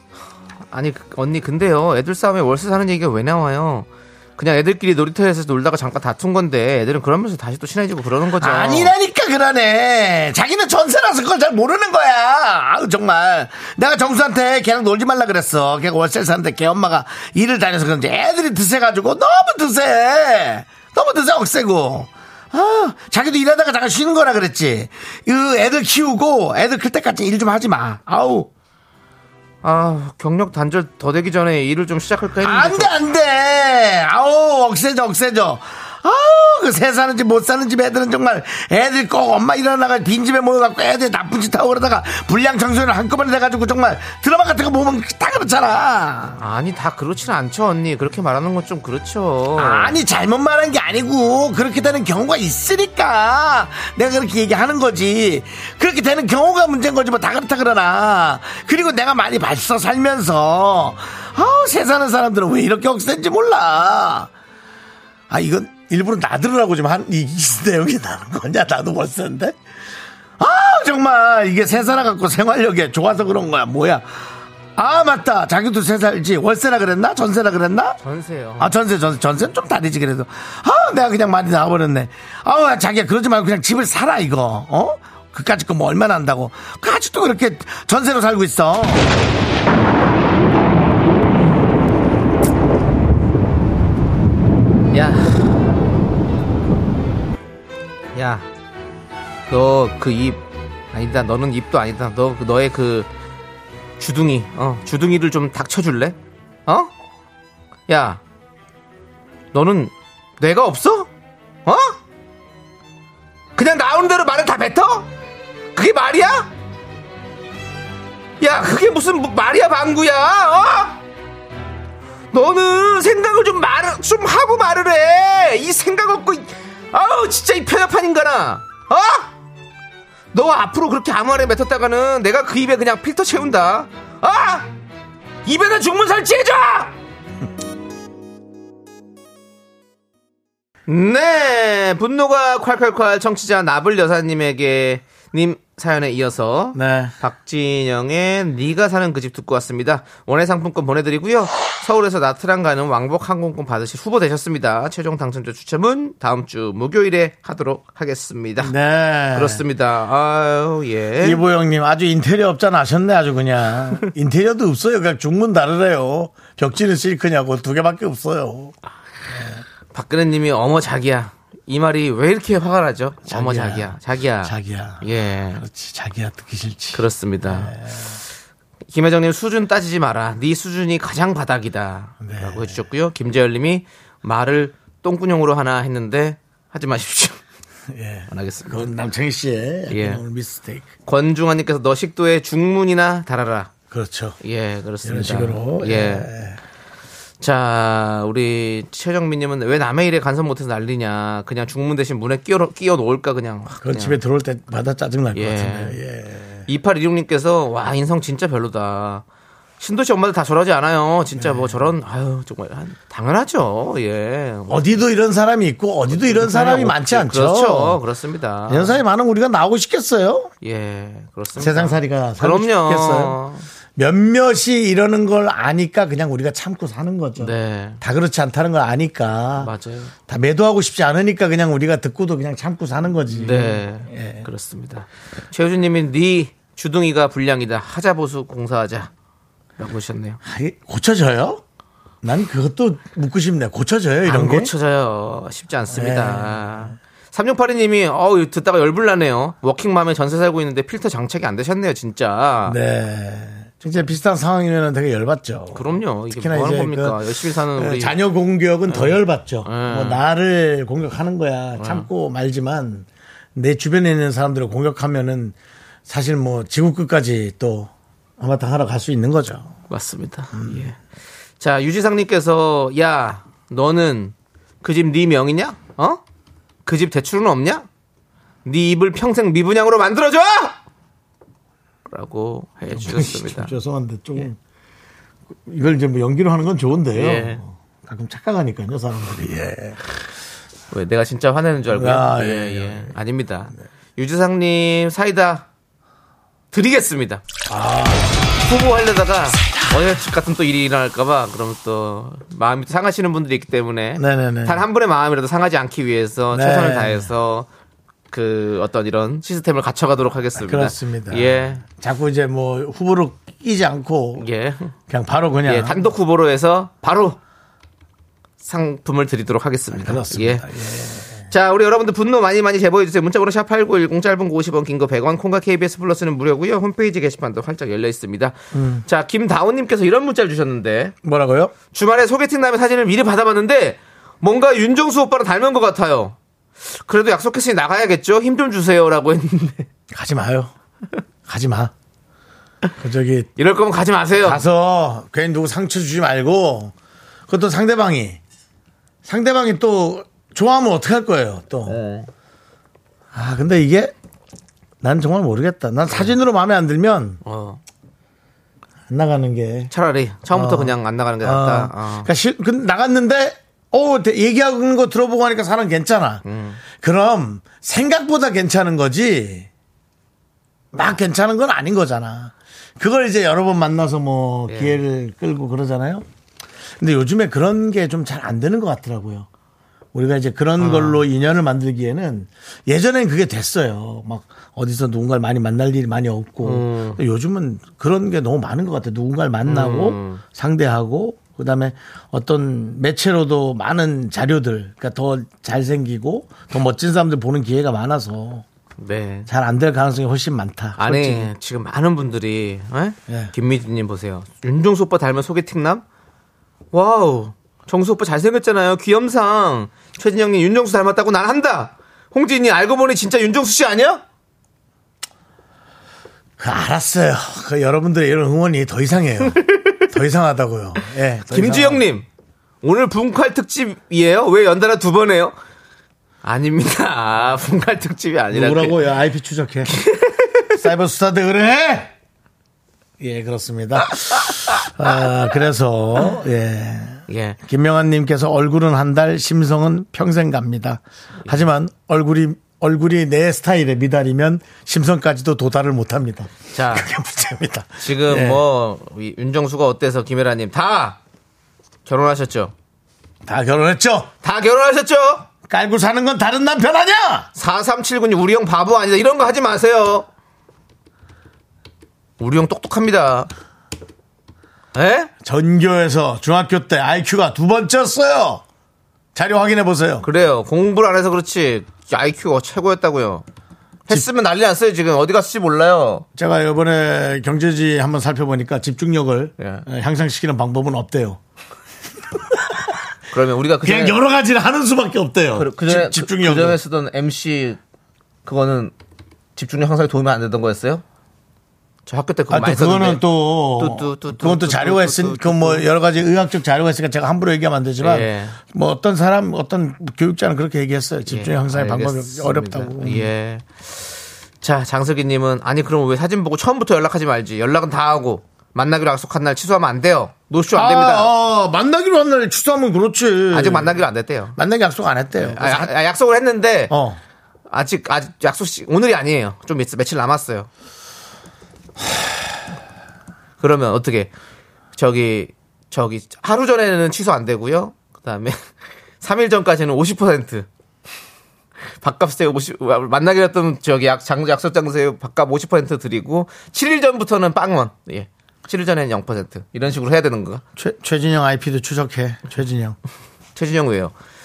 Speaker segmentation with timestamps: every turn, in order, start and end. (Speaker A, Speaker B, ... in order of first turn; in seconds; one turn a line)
Speaker A: 0.7-8.9
Speaker B: 8.4-28.5
Speaker A: 29.6-32.9
Speaker B: 32.4-46.4
Speaker A: 46.4-50.0
Speaker B: 49.6-64.3
Speaker B: 65.3-69.6
Speaker B: 70.4-78.0
Speaker A: 78.0-78.7
Speaker B: 78.6-89.1
Speaker A: 94.9-95.7
Speaker A: 98.1-98.5
Speaker A: 99.5-100.4
Speaker A: 100.9-103.1
Speaker A: 104.0-106.2
Speaker A: 107.9-108.2
Speaker A: 109.5-111.1
Speaker A: 111.7-112.0
Speaker A: 113.6-115.1
Speaker A: 115.8-116.5
Speaker A: 118.4-121.0
Speaker A: 122.3-129.3
Speaker A: 130.3-134.7
Speaker A: 135.5-136.9
Speaker A: 140.9-158.7
Speaker B: 146.7-147.1
Speaker B: 158.6-159.6
Speaker A: 159.3-161.4
Speaker B: 161.2-168.8
Speaker B: 169.3-169.6
Speaker A: 169.9-175.6
Speaker B: 173.3-178.2
Speaker A: 176.9-177.8
Speaker A: 178.9-187.4
Speaker B: 182.2-182.8
Speaker B: 187.9-190.9
Speaker A: 188.3-188.9
Speaker A: 189.9-190.2
Speaker A: 191.1-193.7
Speaker B: 193.9-194.4
Speaker A: 194.4-196.3
Speaker B: 195.0-196.6
Speaker A: 197.4-204.2
Speaker B: 203.8-206.7
Speaker A: 205.3-206.0
Speaker A: 206.7-209.2
Speaker A: 209.8-215.0
Speaker B: 211.4-211.9
Speaker B: 214.7-218.0
Speaker A: 216.1-219.0
Speaker B: 218.7-220.5
Speaker A: 220.6-223.7
Speaker B: 221.6-223.4
Speaker B: 224.0-229.7
Speaker A: 227.4-228.0
Speaker A: 229.6-230.1
Speaker B: 230.3-234.5
Speaker A: 233.3-239.1
Speaker A: 239.8-240.4
Speaker B: 240.4-241.6
Speaker B: 242.2-244.7
Speaker A: 244.2-252.8
Speaker B: 245.9-246.9
Speaker B: 252.7-257.2
Speaker A: 255.7-258.2
Speaker B: 257.8-265.6
Speaker A: 258.9-260.2
Speaker A: 261.8-262.1
Speaker B: 266.1-269.8
Speaker A: 269.9-271.0
Speaker B: 270.5-270.9
Speaker A: 271.6-276.2
Speaker A: 276.9-277.9
Speaker A: 278.6-280.8
Speaker A: 282.1-283.7
Speaker B: 282.9-284.6
Speaker B: 285.6-290.0
Speaker A: 287.1-287.6
Speaker A: 290.9-295.7
Speaker B: 291.9-293.1
Speaker A: 296.7-297.4
Speaker B: 297.7-298.4
Speaker A: 298.6-307.7
Speaker B: 304.2-304.8
Speaker B: 306.5-307.3
Speaker A: 308.3-311.8
Speaker B: 310.6-314.5
Speaker A: 314.4-314.9
Speaker B: 315.1-316.1
Speaker A: 315.6-317.4
Speaker A: 318.6-320.7
Speaker B: 319.9-321.5
Speaker A: 321.5-331.1
Speaker B: 328.7-329.1
Speaker B: 331.2-331.7
Speaker A: 331.9-336.4
Speaker A: 336.9-339.9
Speaker B: 340.1-340.7
Speaker B: 341.5-341.9
Speaker B: 343.0-343.5
Speaker A: 343.6-344.6
Speaker B: 344.4-346.9
Speaker B: 347.5-348.4
Speaker B: 349.2-352.0
Speaker A: 351.9-352.3
Speaker B: 353.3-354.1
Speaker B: 355.0-357.4
Speaker A: 356.1-356.3
Speaker A: 357.4-357.8
Speaker B: 359.1-359.9
Speaker A: 359.9-362.3
Speaker B: 360.5-366.4
Speaker A: 366.4-366.8
Speaker B: 367.0-369.7
Speaker B: 370.9-376.2
Speaker A: 374.7-375.0
Speaker B: 377.0-379.5
Speaker B: 380.1-398.6
Speaker A: 380.8-381.2
Speaker A: 386.6-387.2
Speaker A: 389.6-390.4
Speaker A: 399.0-399.5
Speaker B: 399.5-401.5
Speaker A: 401.0-406.0
Speaker B: 403.3-403.5
Speaker A: 406.9-414.2
Speaker B: 416.6-422.1
Speaker A: 419.6-420.0
Speaker A: 421.5-422.3
Speaker A: 422.8-425.6
Speaker A: 426.4-429.0
Speaker B: 428.5-429.9
Speaker A: 429.9-430.6
Speaker B: 430.7-432.1
Speaker B: 433.2-448.6
Speaker A: 437.3-437.6
Speaker A: 446.7-447.1
Speaker A: 448.0-451.2
Speaker A: 452.1-452.7
Speaker B: 453.5-454.3
Speaker A: 454.4-455.5
Speaker B: 455.7-457.5
Speaker A: 457.6-460.3
Speaker A: 462.4-463.5
Speaker A: 464.9-465.3
Speaker B: 465.4-468.6
Speaker B: 469.4-470.3
Speaker A: 470.2-473.4
Speaker A: 474.1-476.2
Speaker B: 476.4-481.4
Speaker A: 479.6-479.9
Speaker B: 482.5-482.9
Speaker A: 483.3-484.2
Speaker B: 483.8-486.8
Speaker A: 485.6-487.8
Speaker A: 488.4-488.9
Speaker A: 489.6-491.0
Speaker A: 492.1-495.9
Speaker B: 492.5-503.3
Speaker A: 498.0-498.6
Speaker A: 501.3-511.3
Speaker B: 510.7-514.0
Speaker A: 513.5-514.6
Speaker B: 514.6-515.9
Speaker A: 515.4-516.9
Speaker B: 516.9-517.2
Speaker A: 517.7-520.7
Speaker A: 523.6-524.3
Speaker A: 525.0-528.6
Speaker A: 529.2-530.7
Speaker A: 532.0-540.6
Speaker B: 540.8-543.0
Speaker A: 543.6-544.1